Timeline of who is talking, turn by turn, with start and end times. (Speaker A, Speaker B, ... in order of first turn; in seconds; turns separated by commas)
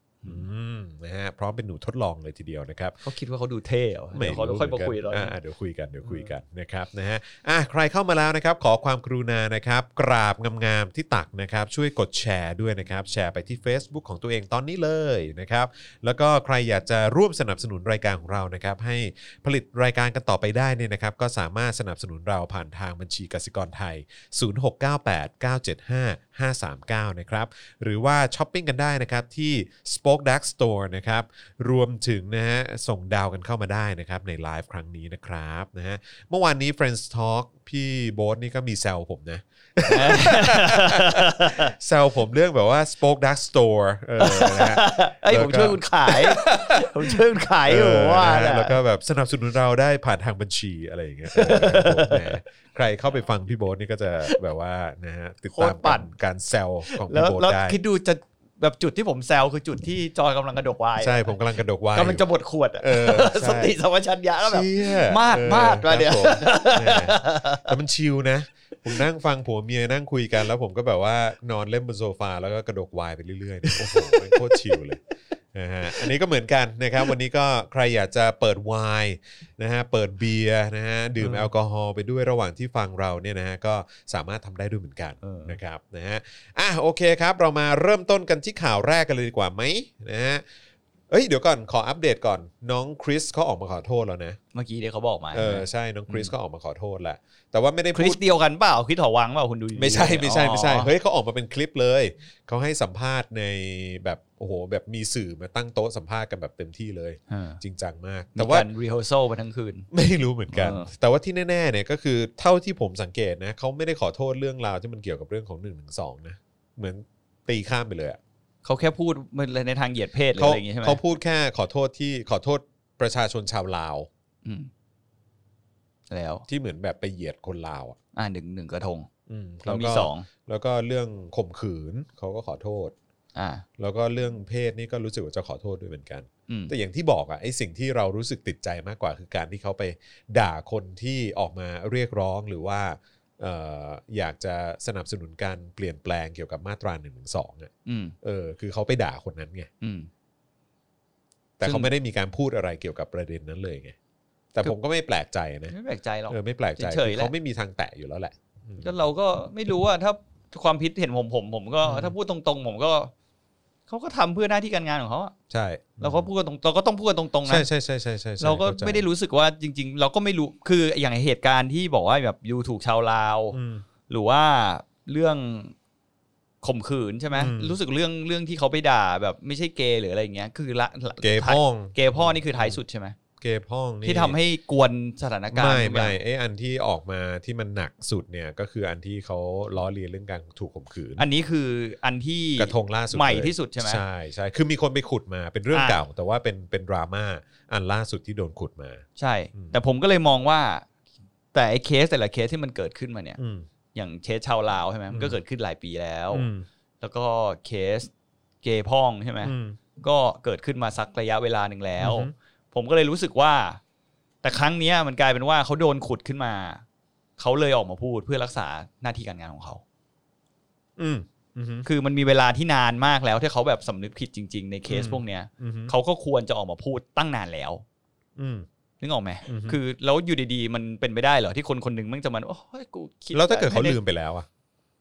Speaker A: 0.2-3.0, Speaker B: 3.0-5.3, Speaker A: 4.1-57.8, Speaker B: 6.0-6.3, Speaker B: 39.8-41.7, Speaker B: 44.2-48.8, Speaker B: 51.3-52.4, Speaker B: 55.5-56.1, Speaker B: 56.9-61.4, Speaker A: 61.0-62.2, Speaker B: 61.9-67.7, Speaker A: 62.8-63.8, Speaker A: 64.4-75.0, Speaker B: 73.7-74.6, Speaker A: 75.5-90.4, Speaker B: 81.2-81.5, Speaker B: 85.2-85.6, Speaker A: 91.1-94.4, Speaker B: 94.5-96.3, Speaker A: 95.3-98.2, Speaker B: 97.9-100.9, Speaker A: 99.8-108.7, Speaker B: 107.3-107.6, Speaker B: 108.3-109.9, Speaker A: 109.9-118.2, Speaker B: 110.5-110.9, Speaker B: 118.6-121.0, Speaker A: 120.4-124.1, Speaker B: 124.4-124.7, Speaker B: 126.1-126.4, Speaker A: 126.5-128.0, Speaker B: 128.1-129.1, Speaker A: 129.3-132.9, Speaker B: 129.6-130.3, Speaker B: 133.3-133.7, Speaker A: 133.8-147.7, Speaker B: 136.5-136.7, Speaker B: 147.8-148.2, Speaker A: 148.2-149.7, Speaker B: 149.8-150.1, Speaker A: 151.6-153.9, Speaker B: 151.6-151.9, Speaker A: 154.5-155.7, Speaker B: 155.7-157.3, Speaker A: 156.3-158.9, Speaker B: 158.8-163.1, Speaker A: 161.8-162.1, Speaker B: 163.9-165.3, Speaker A: 165.5-166.3, Speaker B: 166.0-167.7, Speaker A: 167.4-169.1, Speaker B: 168.4-173.6, Speaker A: 173.5-173.8, Speaker B: 174.1-175.7, Speaker B: 176.6-183.2, Speaker A: 177.3-177.8, Speaker A: 181.2-182.8, Speaker A: 183.4-184.4, Speaker B: 184.0-186.2, Speaker A: 185.5-191.3, Speaker B: 191.2-194.0, Speaker A: 192.6-199.7, Speaker B: 195.7-196.0, Speaker B: 199.2-200.8, Speaker B: 201.5-203.4, Speaker A: 203.4-203.7, Speaker B: 203.9-206.5, Speaker A: 205.1-205.4, Speaker A: 206.3-206.7, Speaker B: 207.0-208.1, Speaker B: 208.6-213.8, Speaker A: 209.4-209.8, Speaker A: 212.0-212.3, Speaker B: 214.4-216.8, Speaker B: 217.4-219.8, Speaker A: 221.0-221.9, Speaker B: 221.8-227.8, Speaker A: 224.9-225.9, Speaker A: 228.4-228.7, Speaker B: 229.0-234.0, Speaker A: 229.4-229.8, Speaker A: 233.3-234.5